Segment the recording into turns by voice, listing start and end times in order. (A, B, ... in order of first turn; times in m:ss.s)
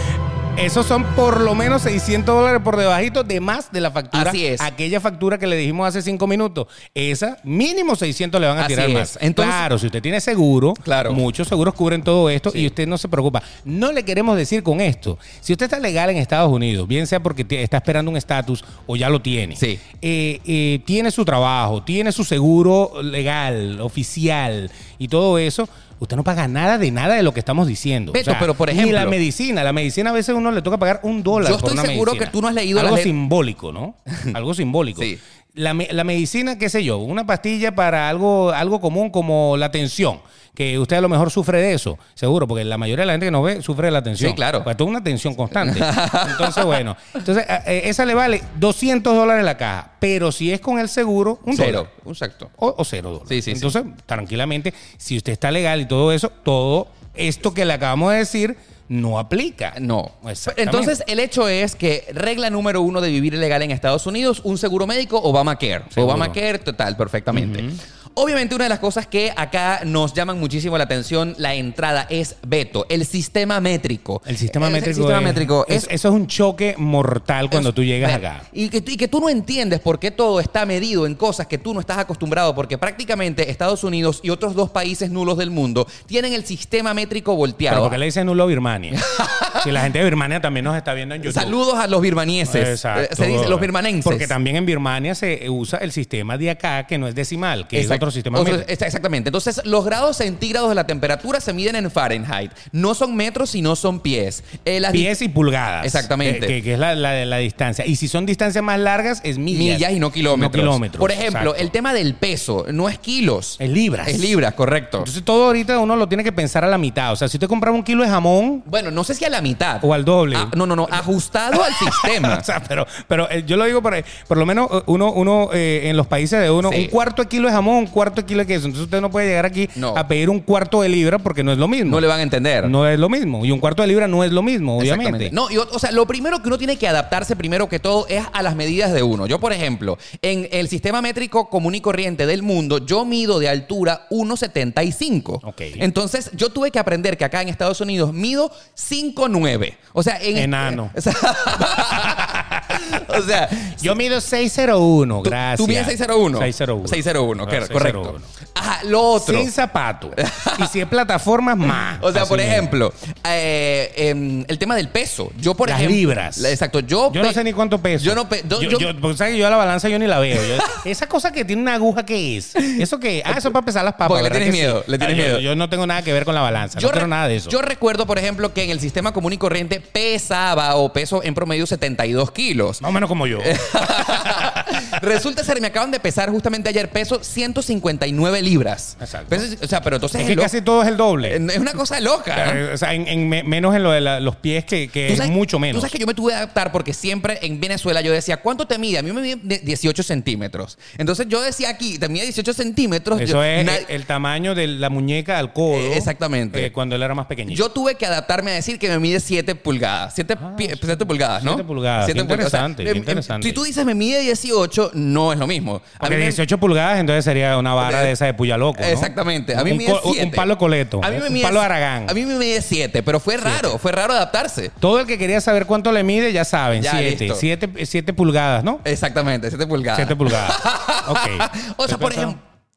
0:00.5-0:51.9 A
0:04.1-0:04.7 B
0:08.6-0:09.6 B
0:10.8-0:11.2 B
0:28.1-0:29.2 B
0:31.3-0:33.1 B
0:34.1-0:34.3 B
0:44.2-0:44.7 B
0:45.6-0:46.8 B
0:51.5-0:52.5 B
0:52.6-1:00.9 A
0:53.3-0:53.7 B
0:59.7-1:15.9 B
1:05.9-1:06.4 A
1:07.3-1:07.8 A
1:14.2-1:18.4 A
1:17.5-1:28.0 B
1:27.7-1:29.0 A
1:28.9-1:29.7 B
1:29.6-1:31.6 A
1:31.2-1:34.3 B
1:32.5-1:38.6 A
1:37.7-1:45.1 B
1:44.9-1:51.7 A
1:45.8-1:46.5 B
1:49.5-1:55.1 B
1:53.6-1:54.4 A
1:55.0-1:58.6 A
1:58.6-2:02.4 B
1:59.8-2:12.0 A
2:06.6-2:06.9 B
2:09.8-2:10.0 B
2:11.8-2:12.7 B
2:12.6-2:15.3 A
2:14.8-2:33.9 B
2:25.4-2:25.8 A
2:30.3-2:30.9 A
2:31.8-2:38.2 A
2:35.2-2:39.5 B
2:39.2-2:42.7 A
2:40.2-2:40.7 B
2:41.6-2:47.4 B
2:45.6-2:46.5 A
2:47.1-2:57.5 A
2:48.0-2:48.9 B
2:50.4-2:50.8 B
2:52.6-2:53.5 B
2:54.0-2:55.4 B
2:56.8-3:02.8 B
3:02.8-3:05.0 A
3:03.4-3:10.5 B
3:09.0-3:09.4 A
3:10.1-3:11.4 A
3:11.2-3:12.6 B
3:12.3-3:15.9 A
3:15.1-3:23.9 B
3:23.2-3:27.6 A
3:25.7-3:26.7 B
3:27.5-3:36.4 B
3:30.4-3:33.6 A
3:36.0-3:42.1 A
3:37.8-3:38.1 B
3:38.8-3:40.5 B
3:41.0-3:44.7 B
3:43.4-3:43.7 A
3:44.8-3:48.8 A
3:46.8-3:47.4 B
3:48.8-3:52.4 B
3:49.9-3:52.4 A